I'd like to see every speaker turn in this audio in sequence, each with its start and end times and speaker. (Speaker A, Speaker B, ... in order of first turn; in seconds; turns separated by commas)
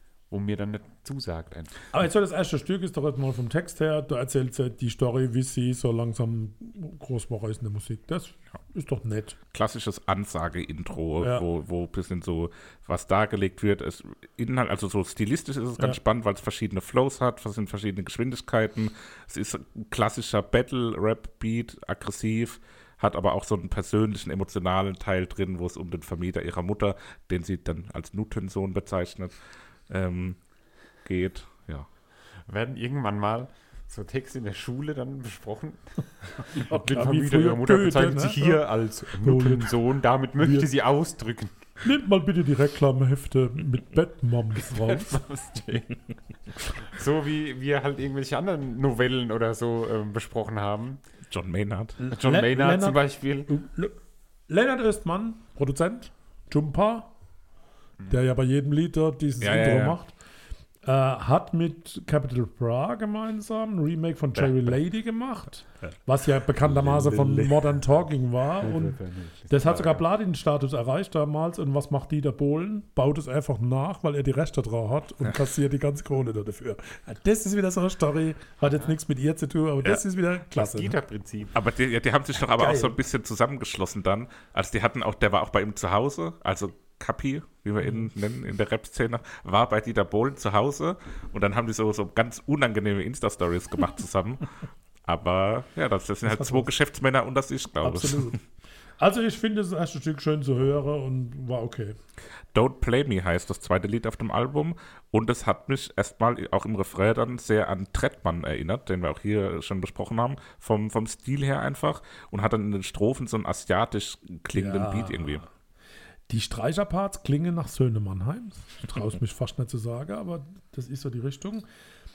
Speaker A: 0.3-1.8, Speaker B: 1.9-9.4, Speaker C: 9.5-29.4, Speaker B: 11.2-11.4, Speaker C: 29.9-30.4, Speaker C: 31.0-31.9, Speaker A: 32.5-41.5, Speaker B: 36.5-38.6, Speaker B: 39.1-39.7, Speaker B: 40.4-40.7, Speaker B: 41.8-45.2, Speaker A: 44.6-46.0, Speaker A: 46.6-51.0, Speaker C: 51.3-52.0, Speaker B: 52.0-54.0, Speaker A: 52.1-53.5, Speaker B: 54.5-57.1, Speaker B: 58.1-60.1, Speaker C: 59.4-60.0, Speaker B: 60.8-80.9, Speaker C: 64.3-64.8, Speaker C: 66.6-67.5, Speaker A: 68.6-70.0, Speaker A: 80.5-81.5, Speaker C: 81.5-94.5, Speaker B: 82.5-83.0, Speaker C: 95.0-98.4, Speaker B: 96.2-96.7, Speaker B: 97.8-98.4, Speaker B: 99.0-102.0, Speaker C: 102.5-115.4, Speaker B: 114.5-115.5, Speaker B: 116.3-121.6